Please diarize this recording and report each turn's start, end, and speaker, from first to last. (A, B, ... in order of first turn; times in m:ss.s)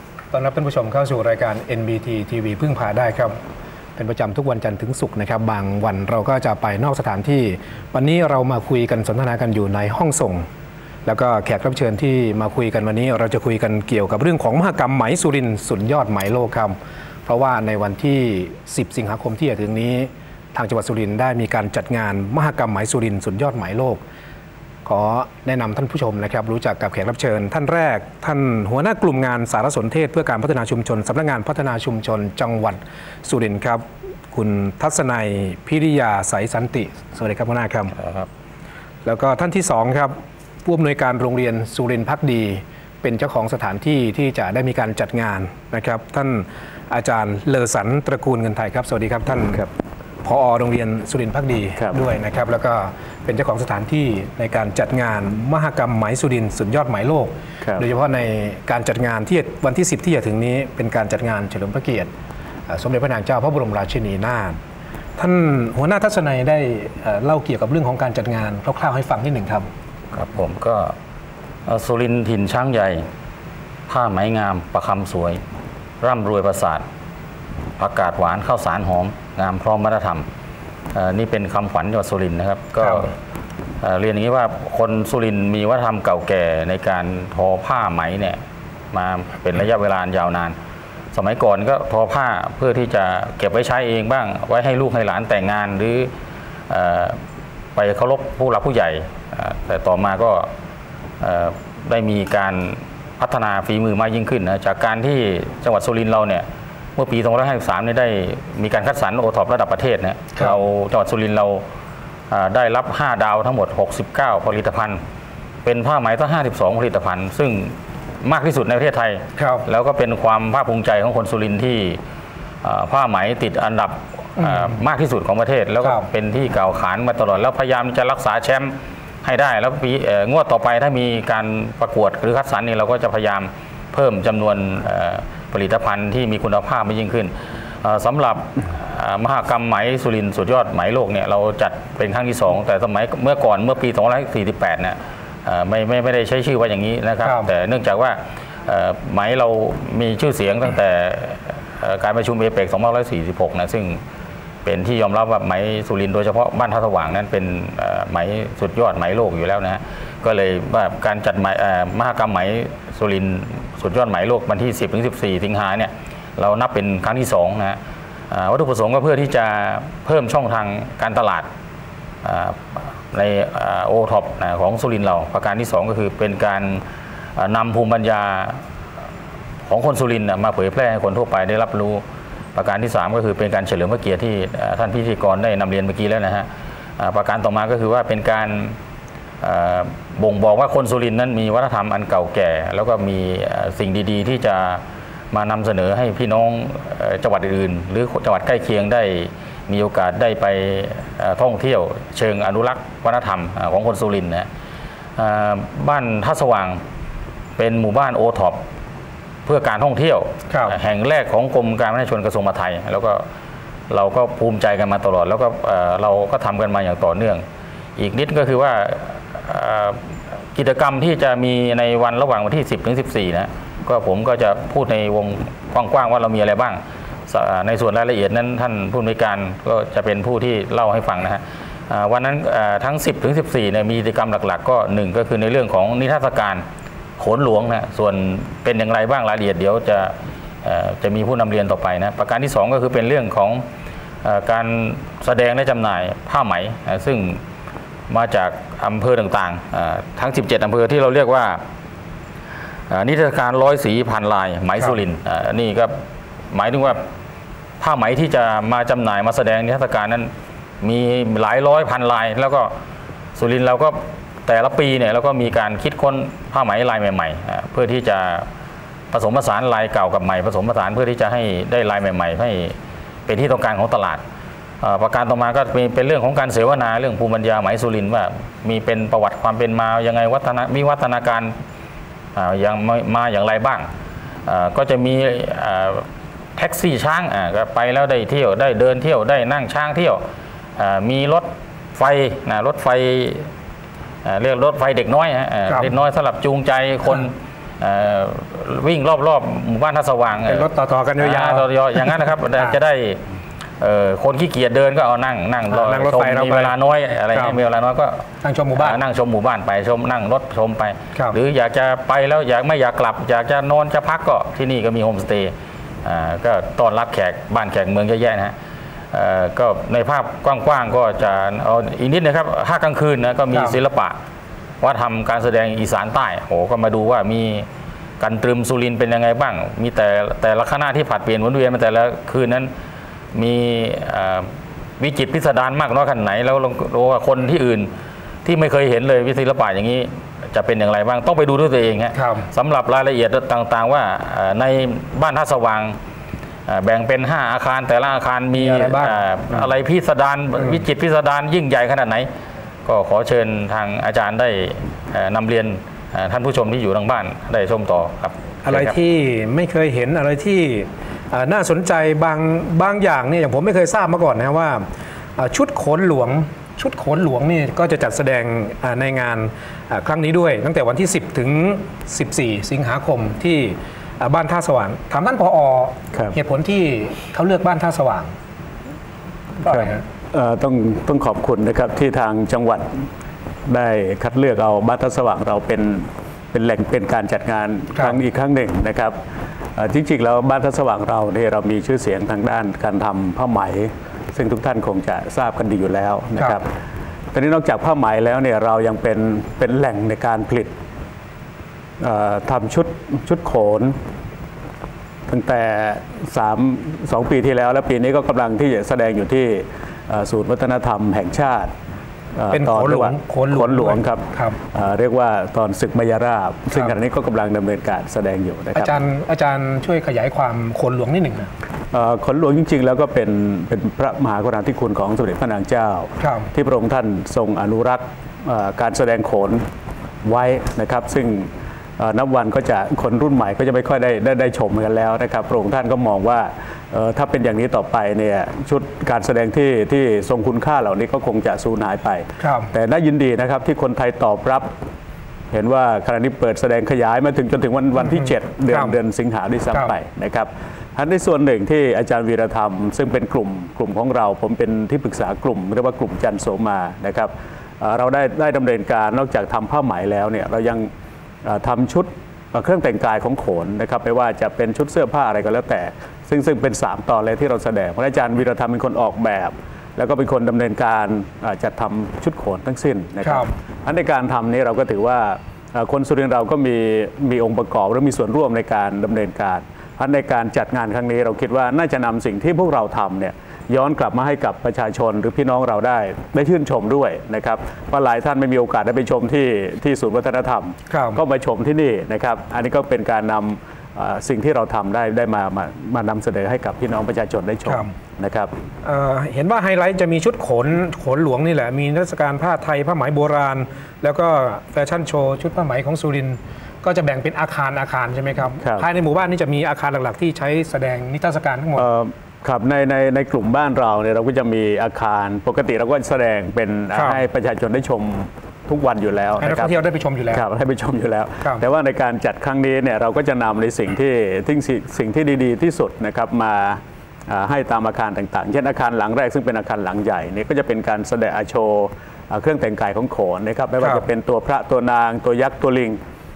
0:00.3-0:03.4 A
0:04.0-0:10.4 A
0:11.0-0:24.0 A
0:24.8-0:37.9 A
0:38.0-0:38.3 B
0:39.0-0:49.7 A
0:50.2-1:02.1 A
1:02.7-1:04.6 A
1:05.2-1:09.7 A
1:10.1-1:10.9 B
1:11.6-1:13.0 B
1:13.9-1:15.4 B
1:16.0-1:16.8 B
1:17.8-1:20.2 B
1:20.9-1:23.1 B
1:22.8-1:23.1 A
1:23.8-1:28.4 B
1:28.9-1:30.6 B
1:31.1-1:36.1 B
1:36.7-1:37.2 B
1:37.8-1:40.5 B
1:41.2-1:51.6 B
1:52.3-1:55.0 B
1:55.6-2:02.0 B
1:59.4-1:59.6 A
2:02.6-2:34.0 B
2:04.4-2:04.8 A
2:05.8-2:06.1 A
2:27.2-2:27.5 A
2:34.6-2:47.8 B
2:48.3-2:51.5 B
2:52.2-2:56.8 B
2:57.4-2:58.6 B
2:59.6-3:02.0 B
3:02.5-3:08.8 B
3:09.4-3:24.5 B
3:25.2-3:26.8 B
3:27.6-3:28.6 B
3:29.4-3:33.2 B
3:30.5-3:30.8 A
3:33.9-3:37.4 B
3:38.0-3:40.0 B
3:40.5-3:56.6 B
3:57.2-4:03.6 B
4:04.2-4:07.4 B
4:08.1-4:11.6 B
4:12.9-4:16.0 B
4:16.5-4:17.0 B
4:17.8-4:22.7 B
4:23.4-4:28.5 B
4:29.1-4:34.2 B
4:34.8-4:41.5 B
4:42.4-4:43.9 B
4:44.4-4:46.0 B
4:46.6-4:50.2 B
4:50.8-4:53.5 B
4:54.2-5:03.2 B
4:55.7-4:55.9 A
5:00.4-5:02.8 A
5:03.8-5:08.2 B
5:05.7-5:06.7 A
5:07.3-5:07.6 A
5:08.4-5:09.0 A
5:08.7-5:18.5 B
5:19.1-5:24.2 B
5:23.5-5:23.8 A
5:24.8-5:27.7 B
5:28.2-5:32.7 B
5:33.3-5:34.5 B
5:35.0-5:37.9 B
5:38.4-5:46.0 B
5:42.1-5:42.5 A
5:46.7-5:52.3 B
5:48.5-5:49.7 A
5:52.8-5:58.9 B
5:58.6-6:04.8 A
6:05.4-6:18.3 A
6:19.6-6:20.0 A
6:19.6-6:23.0 C
6:23.7-6:29.2 C
6:29.8-6:36.7 C
6:37.3-6:40.7 C
6:42.0-6:44.0 C
6:45.3-6:51.7 C
6:52.4-6:58.9 C
6:52.5-6:54.6 A
6:56.7-6:57.0 A
6:58.7-7:01.5 A
7:01.9-7:09.6 C
7:06.2-7:06.5 A
7:10.2-7:24.7 C
7:22.4-7:22.7 A
7:25.5-7:40.9 C
7:28.1-7:29.0 A
7:41.4-8:18.5 C
7:53.2-7:53.5 A
8:10.9-8:11.2 A
8:17.6-8:17.9 A
8:18.8-8:31.9 A
8:31.8-8:39.8 C
8:36.9-8:37.2 A
8:39.4-8:40.4 A
8:40.3-8:56.0 C
8:53.8-8:54.0 A